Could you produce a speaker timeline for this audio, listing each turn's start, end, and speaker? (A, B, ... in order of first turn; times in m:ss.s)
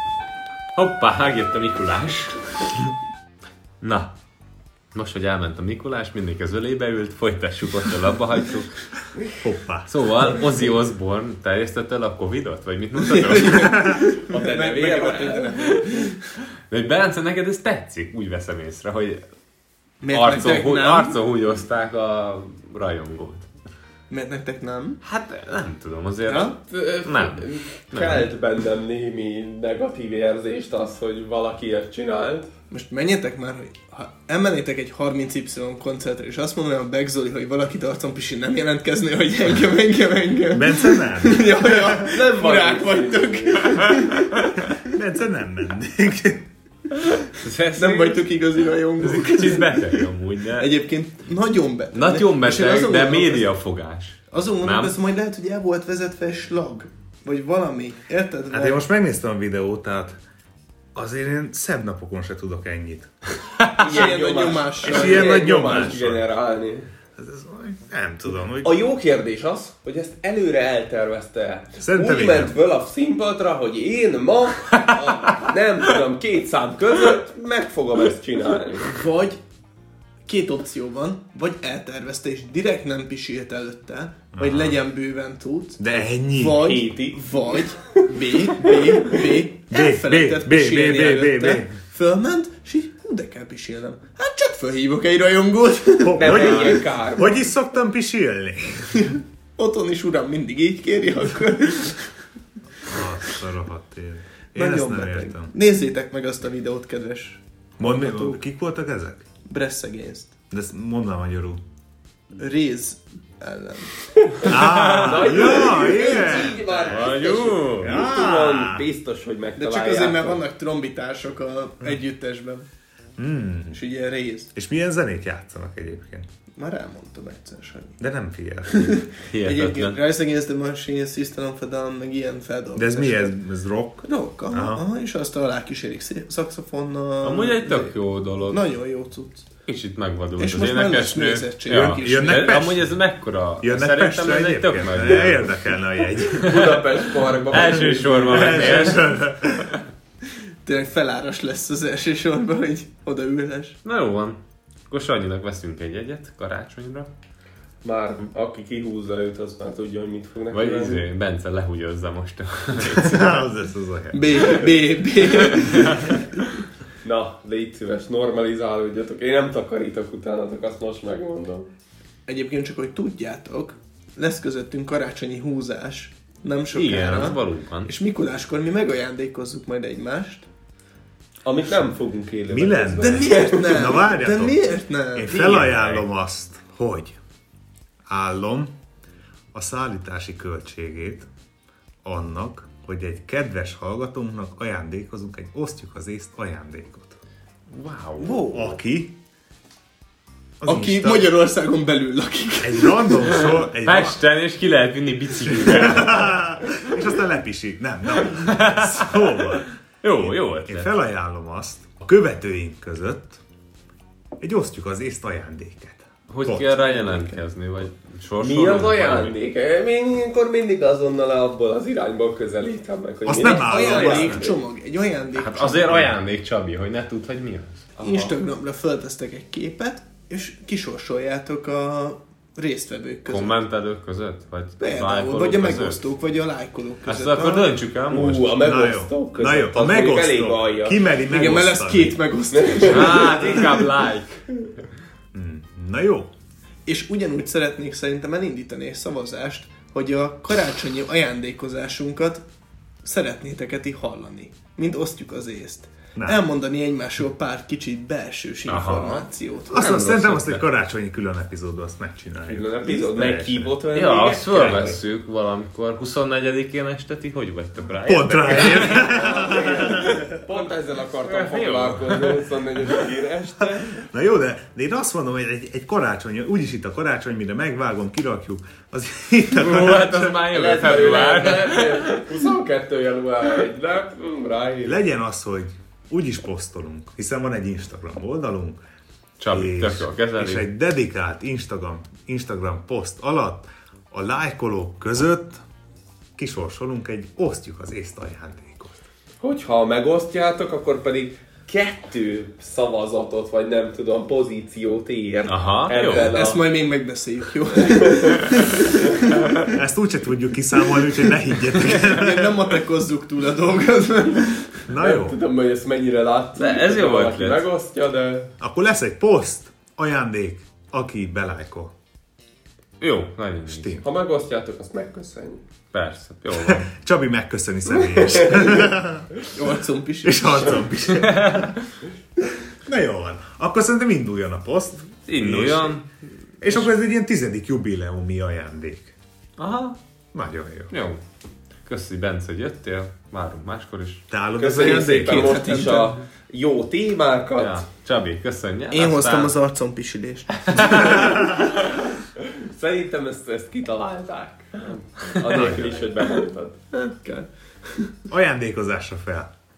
0:00.7-0:02.7 A
0:03.8-0:04.1 A
0:04.9-0:08.7 A
0:09.4-0:09.9 B
0:09.9-0:13.9 A
0:13.0-0:16.2 C
0:14.2-0:16.0 D
0:16.7-0:19.2 A
0:20.0-0:21.2 C
0:20.1-0:23.5 A
0:24.1-0:25.0 C
0:25.0-0:28.3 A
0:26.2-0:26.5 C
0:26.6-0:32.5 D
0:32.7-0:44.8 C
0:40.5-0:42.0 B
0:42.0-0:43.9 D
0:44.8-0:46.5 B
0:47.2-0:48.2 A
0:47.7-0:53.5 C
0:49.0-0:50.7 A
0:51.9-0:54.9 A
0:54.3-0:58.8 C
0:58.5-1:00.2 B
1:00.9-1:03.1 B
1:03.8-1:05.5 C
1:03.8-1:06.9 D
1:04.8-1:06.2 B
1:07.2-1:08.8 B
1:08.6-1:19.0 D
1:11.8-1:12.5 B
1:18.9-1:19.4 C
1:20.3-1:36.8 C
1:24.3-1:24.8 B
1:25.8-1:26.7 B
1:26.5-1:27.8 D
1:28.5-1:29.1 D
1:29.7-1:31.8 B
1:36.0-1:39.1 B
1:36.2-1:37.4 D
1:39.1-1:42.1 C
1:42.8-1:45.5 B
1:44.5-1:48.4 C
1:47.8-1:49.2 B
1:49.4-1:50.3 C
1:50.5-1:51.6 B
1:52.4-1:54.4 C
1:54.4-1:57.0 B
1:54.5-1:55.4 A
1:55.0-2:00.4 D
1:55.4-1:56.6 C
1:56.8-1:57.9 A
1:57.8-1:58.8 B
1:59.6-2:02.7 C
2:03.2-2:03.8 B
2:03.7-2:04.5 C
2:04.5-2:06.3 B
2:06.6-2:08.0 C
2:08.0-2:08.9 B
2:08.7-2:13.4 C
2:09.3-2:10.0 A
2:12.7-2:14.8 B
2:14.0-2:19.5 C
2:17.2-2:18.6 A
2:19.7-2:25.6 A
2:20.4-2:22.6 C
2:21.7-2:22.9 B
2:23.6-2:26.7 B
2:26.2-2:26.8 A
2:26.3-2:29.0 D
2:27.5-2:29.8 A
2:28.2-2:29.8 B
2:30.6-2:33.8 C
2:33.8-2:37.1 A
2:37.8-2:41.0 D
2:40.5-2:43.5 A
2:42.9-2:44.6 B
2:44.1-2:46.5 C
2:45.7-2:46.1 A
2:47.0-2:51.7 D
2:52.3-3:00.5 C
2:56.7-2:57.9 A
3:01.4-3:04.0 D
3:02.5-3:07.2 B
3:03.0-3:05.7 C
3:05.3-3:06.0 D
3:08.0-3:08.7 B
3:09.5-3:11.3 B
3:12.0-3:17.2 B
3:17.7-3:18.8 A
3:18.2-3:19.1 B
3:20.6-3:21.3 B
3:20.6-3:23.5 C
3:22.6-3:24.2 B
3:23.6-3:26.3 A
3:25.6-3:33.4 B
3:28.2-3:30.9 A
3:34.4-3:36.7 B
3:36.3-3:39.4 A
3:36.8-3:37.4 C
3:38.4-3:44.6 D
3:43.2-3:44.5 B
3:43.4-3:46.1 C
3:45.3-3:47.9 A
3:48.0-3:48.4 D
3:48.0-3:53.6 C
3:53.3-3:56.1 A
3:54.8-3:57.8 C
3:57.0-3:58.5 A
3:58.1-4:01.0 D
3:58.6-4:02.2 B
4:01.2-4:03.8 C
4:02.5-4:03.9 D
4:02.9-4:04.4 A
4:05.3-4:06.3 B
4:06.9-4:12.4 C
4:13.0-4:20.2 C
4:16.1-4:16.4 B
4:18.7-4:20.6 A
4:19.7-4:23.8 B
4:22.4-4:25.0 D
4:23.9-4:29.3 A
4:24.5-4:25.0 B
4:28.0-4:30.2 B
4:28.7-4:34.0 D
4:31.2-4:32.4 A
4:33.6-4:40.4 B
4:39.5-4:42.2 A
4:40.5-4:45.0 D
4:44.8-4:48.8 B
4:49.4-4:50.6 A
4:49.5-4:55.6 B
4:56.4-4:59.0 B
4:59.4-5:06.7 D
5:05.4-5:06.4 A
5:06.3-5:09.5 C
5:07.8-5:08.9 D
5:09.7-5:12.5 B
5:11.7-5:14.8 C
5:14.9-5:15.4 B
5:15.0-5:18.5 D
5:16.6-5:17.6 A
5:18.6-5:21.9 B
5:23.0-5:24.0 A
5:23.7-5:24.0 B
5:24.0-5:25.6 D
5:25.9-5:26.9 A
5:26.5-5:29.3 B
5:28.0-5:28.9 D
5:29.5-5:30.9 C
5:30.2-5:31.7 B
5:31.1-5:31.8 A
5:32.8-5:36.0 B
5:35.3-5:36.1 A
5:36.6-5:39.1 B
5:39.6-5:40.0 A
5:40.3-5:40.9 B
5:40.9-5:41.2 A
5:41.8-5:44.2 A
5:44.3-5:45.9 B
5:44.6-5:47.8 D
5:44.8-5:46.1 C
5:47.6-5:49.5 A
5:48.9-5:51.1 C
5:50.6-5:51.8 A
5:50.7-5:51.7 B
5:52.6-5:56.8 D
5:55.4-5:55.9 A
5:56.9-5:58.1 C
5:58.3-5:59.5 B